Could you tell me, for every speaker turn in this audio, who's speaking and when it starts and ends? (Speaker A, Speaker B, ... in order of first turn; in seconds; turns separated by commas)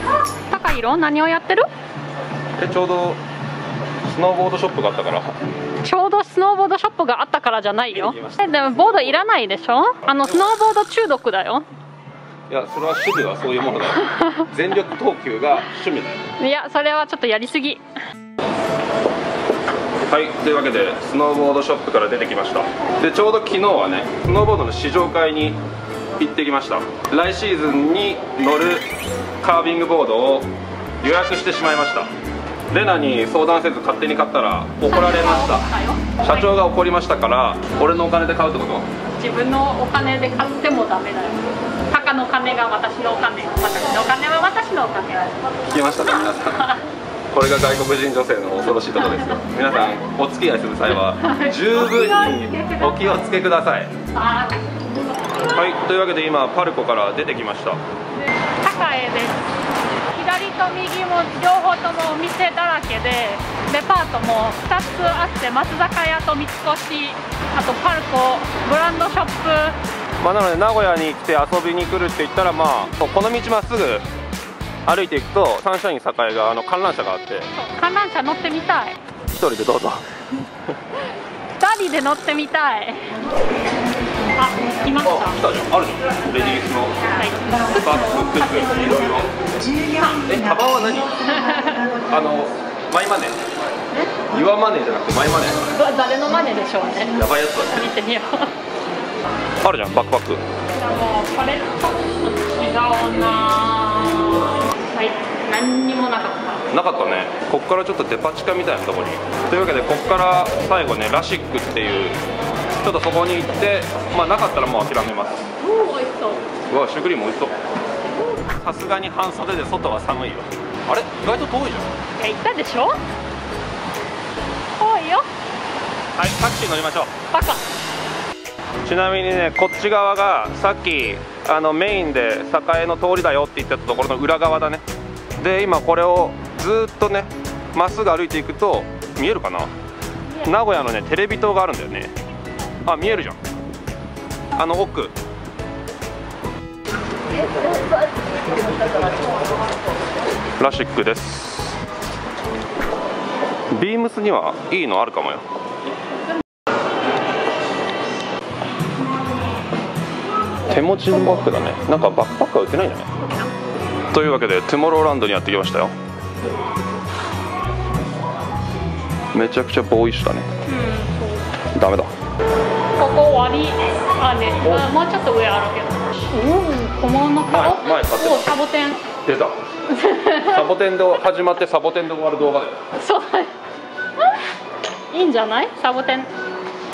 Speaker A: 0.4-1.7, Speaker B: 2.6-3.2, Speaker B: 4.0-5.3, Speaker A: 5.8-11.6, Speaker B: 7.9-9.1, Speaker B: 12.5-16.1, Speaker A: 16.4-17.8, Speaker B: 20.1-25.6, Speaker B: 26.2-28.8, Speaker B: 29.4-30.5, Speaker B: 31.0-32.1, Speaker B: 32.7-35.7, Speaker A: 34.8-36.5, Speaker B: 36.2-38.9, Speaker A: 39.2-45.5, Speaker B: 45.7-46.7, Speaker A: 46.3-46.8, Speaker B: 47.3-54.0, Speaker A: 48.8-49.4, Speaker A: 51.0-53.3, Speaker A: 54.1-55.1, Speaker B: 55.5-57.8, Speaker A: 58.6-59.5, Speaker A: 60.1-69.8, Speaker B: 70.2-74.0, Speaker B: 74.8-77.5, Speaker A: 77.5-79.0, Speaker B: 79.3-80.0, Speaker A: 81.6-83.1, Speaker A: 84.3-85.4, Speaker B: 85.0-87.0, Speaker A: 87.1-88.7, Speaker B: 87.8-89.3, Speaker B: 90.2-91.1, Speaker A: 91.2-91.9, Speaker B: 92.1-93.3, Speaker B: 94.3-95.7, Speaker A: 95.7-98.5, Speaker B: 97.1-97.8, Speaker B: 99.6-100.4, Speaker A: 100.8-106.6, Speaker B: 106.7-112.2, Speaker B: 112.8-115.5, Speaker A: 115.6-116.4, Speaker B: 116.7-117.5, Speaker B: 118.5-121.9, Speaker A: 122.2-123.0, Speaker A: 124.8-125.2, Speaker B: 126.2-127.1, Speaker A: 127.3-127.6, Speaker B: 128.8-134.8, Speaker B: 135.4-139.7, Speaker B: 140.4-142.1, Speaker B: 142.8-143.4, Speaker B: 144.5-145.1, Speaker B: 150.6-151.8, Speaker B: 153.7-155.4, Speaker B: 160.7-163.1, Speaker A: 163.2-163.5, Speaker B: 164.1-165.9, Speaker B: 169.3-170.5, Speaker A: 170.7-171.5, Speaker B: 171.7-172.1, Speaker A: 173.0-179.1, Speaker B: 174.6-174.9, Speaker B: 177.5-178.5, Speaker B: 179.2-179.6, Speaker A: 179.9-180.7, Speaker B: 180.4-182.8, Speaker A: 182.9-183.5, Speaker A: 185.1-186.3